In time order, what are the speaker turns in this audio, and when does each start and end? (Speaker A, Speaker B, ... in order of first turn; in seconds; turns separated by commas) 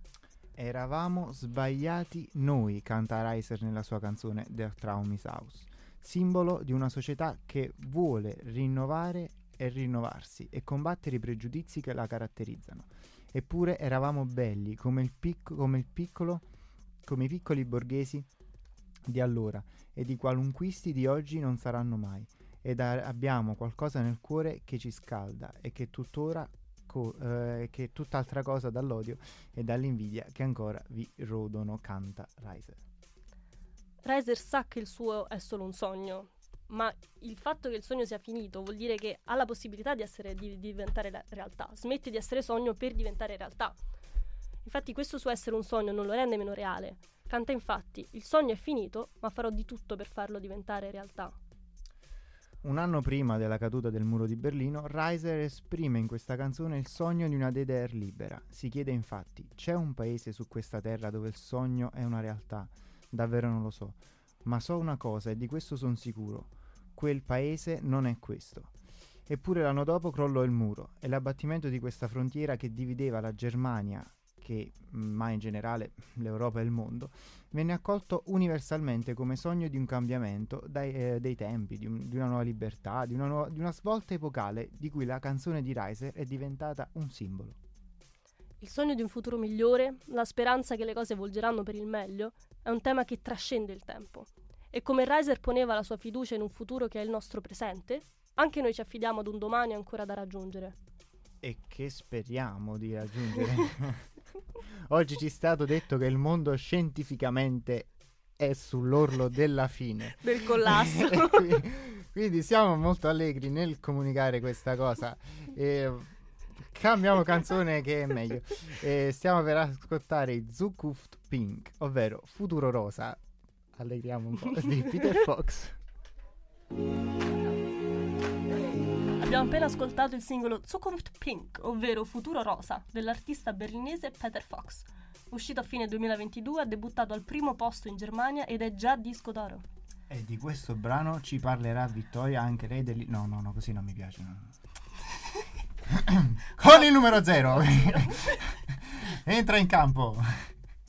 Speaker A: 0.6-16.5, Speaker A: 17.0-18.3, Speaker A: 19.1-32.8, Speaker B: 34.0-43.8, Speaker B: 44.6-51.4, Speaker A: 52.6-68.7, Speaker A: 69.3-87.6, Speaker B: 88.6-100.8, Speaker A: 101.4-104.1, Speaker A: 104.9-123.2, Speaker B: 110.2-111.6, Speaker A: 123.7-125.8, Speaker B: 129.2-139.6, Speaker A: 140.1-144.5, Speaker A: 145.8-150.5